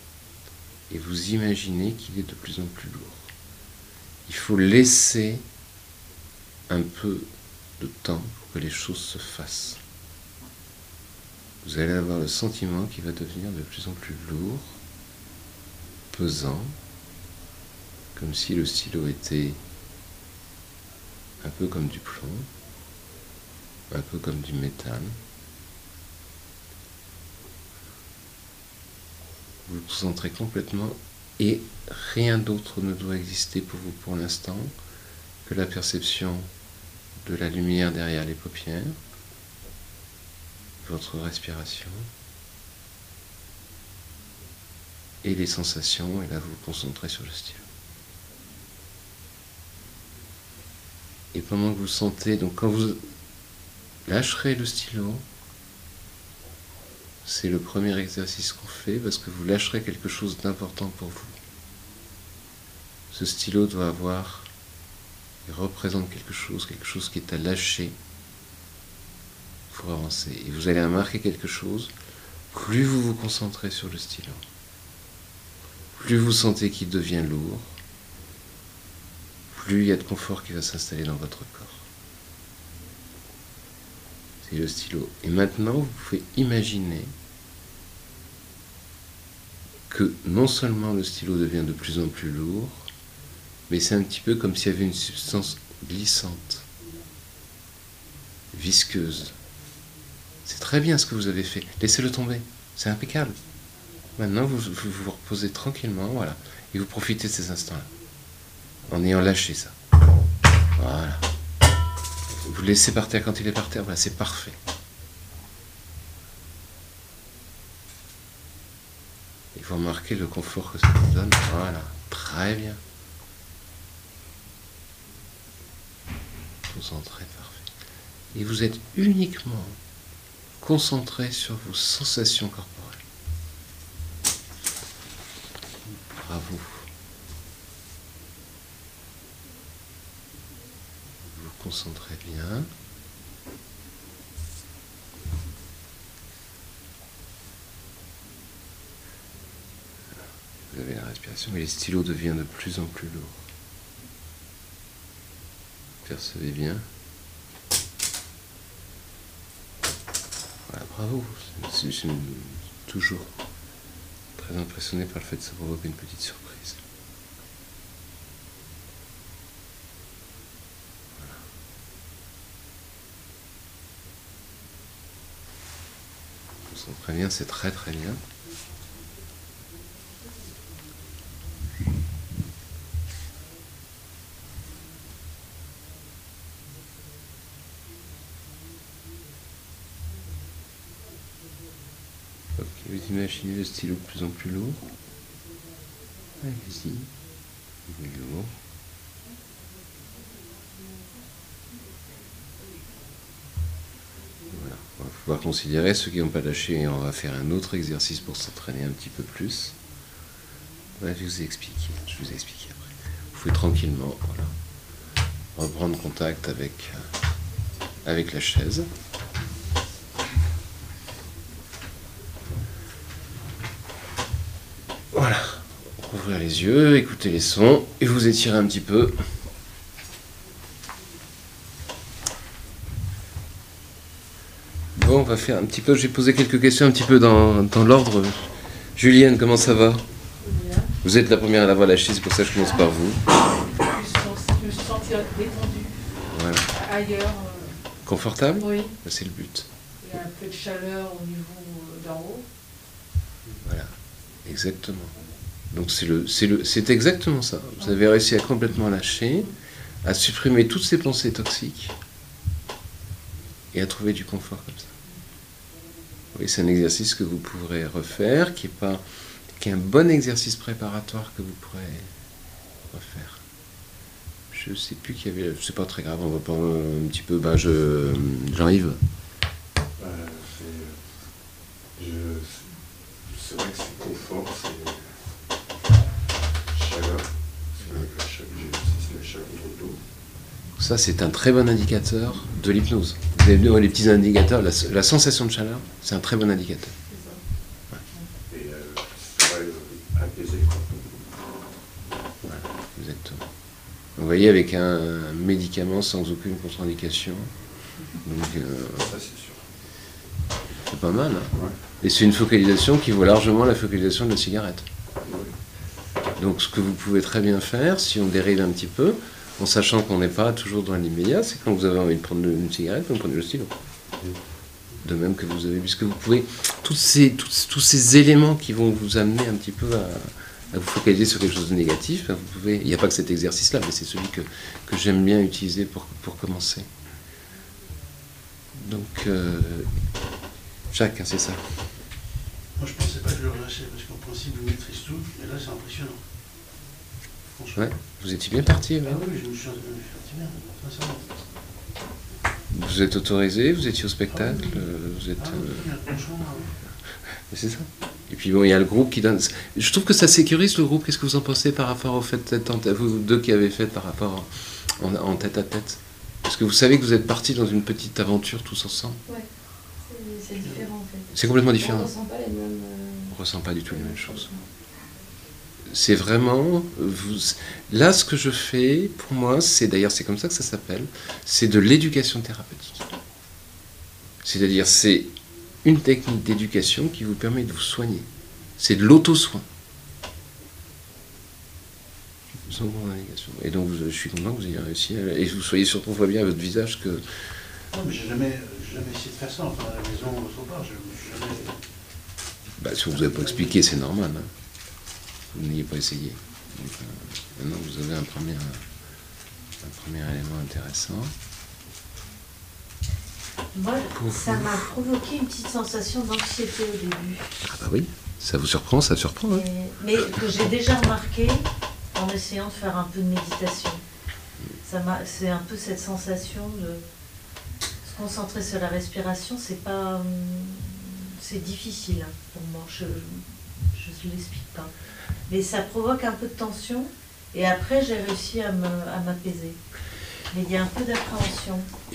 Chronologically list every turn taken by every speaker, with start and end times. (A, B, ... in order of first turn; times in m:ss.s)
0:00.9-0:03.3 A
0:04.3-0:05.4 A
0:06.7-0:09.8 A
0:11.6-0:14.8 A
0:16.1-0:16.7 A
0:18.2-0:19.6 A
0:21.4-0:22.5 A
0:23.9-0:25.2 A
0:29.7-0:34.7 A
0:35.4-0:36.5 A
0:37.2-0:39.0 A
0:40.8-0:42.1 A
0:45.2-0:47.6 A
0:51.3-0:53.0 A
0:54.1-0:55.2 A
0:57.2-1:01.4 A
1:03.1-1:04.5 A
1:05.5-1:08.0 A
1:09.7-1:11.9 A
1:12.5-1:14.4 A
1:16.0-1:17.7 A
1:19.5-1:21.8 A
1:24.4-1:27.1 A
1:29.9-1:32.9 A
1:33.7-1:36.6 A
1:38.5-1:39.3 A
1:40.4-1:43.4 A
1:44.2-1:47.9 A
1:48.9-1:49.8 A
1:50.8-1:51.2 A
1:52.4-1:54.6 A
1:59.6-2:02.8 A
2:06.7-2:07.7 A
2:08.3-2:09.8 A
2:10.6-2:13.0 A
2:16.2-2:16.9 A
2:21.2-2:22.7 A
2:30.7-2:33.4 A
2:36.0-2:36.8 A
2:40.7-2:43.3 A
2:44.4-2:46.8 A
2:56.7-2:58.2 A
3:12.6-3:14.8 A
3:16.4-3:17.1 A
3:17.9-3:18.5 A
3:24.5-3:29.8 A
3:31.0-3:34.5 A
3:35.6-3:37.1 A
3:38.0-3:38.9 A
3:45.1-3:49.2 A
3:55.0-4:00.0 A
4:00.4-4:00.9 B
4:01.0-4:03.2 A
4:03.9-4:06.0 B
4:06.3-4:06.7 A
4:06.7-4:07.8 B
4:08.0-4:09.7 A
4:10.0-4:12.5 B
4:13.6-4:13.9 A
4:14.4-4:15.2 A
4:15.7-4:19.5 A
4:20.0-4:22.0 A
4:23.7-4:24.9 A
4:26.3-4:29.0 A
4:29.6-4:32.1 A
4:32.9-4:33.4 A
4:34.5-4:39.0 A
4:40.0-4:41.1 C
4:42.0-4:45.2 C
4:46.7-4:50.0 C
4:50.8-4:57.0 A
4:57.1-4:57.4 B
4:58.5-5:01.2 C
5:02.4-5:03.4 A
5:04.2-5:07.5 A
5:08.2-5:09.1 A
5:08.9-5:09.6 C
5:10.9-5:14.9 A
5:15.2-5:15.5 C
5:16.4-5:23.7 A
5:25.0-5:36.9 A
5:38.8-5:39.9 A
5:40.9-5:41.7 A
5:42.8-5:46.2 D
5:47.6-5:47.9 D
5:47.8-5:49.2 A
5:49.0-5:51.3 D
5:52.7-5:55.9 A
5:54.3-5:54.8 D
5:55.4-5:56.7 D
5:57.5-6:09.2 A
6:10.1-6:13.4 E
6:11.3-6:12.1 A
6:13.3-6:14.5 A
6:13.9-6:14.6 E
6:15.9-6:23.1 A
6:24.4-6:25.3 A
6:25.8-6:28.3 A
6:28.8-6:29.6 A
6:32.7-6:37.2 A
6:37.9-6:41.8 D
6:42.8-6:44.5 A
6:43.4-6:43.7 D
6:45.5-6:48.8 A
6:49.8-6:51.3 A
6:53.8-6:57.5 F
6:54.1-6:54.9 A
6:57.6-6:59.6 A
6:59.5-7:04.0 F
7:04.8-7:07.1 F
7:08.0-7:14.9 F
7:15.5-7:19.8 F
7:20.5-7:21.9 F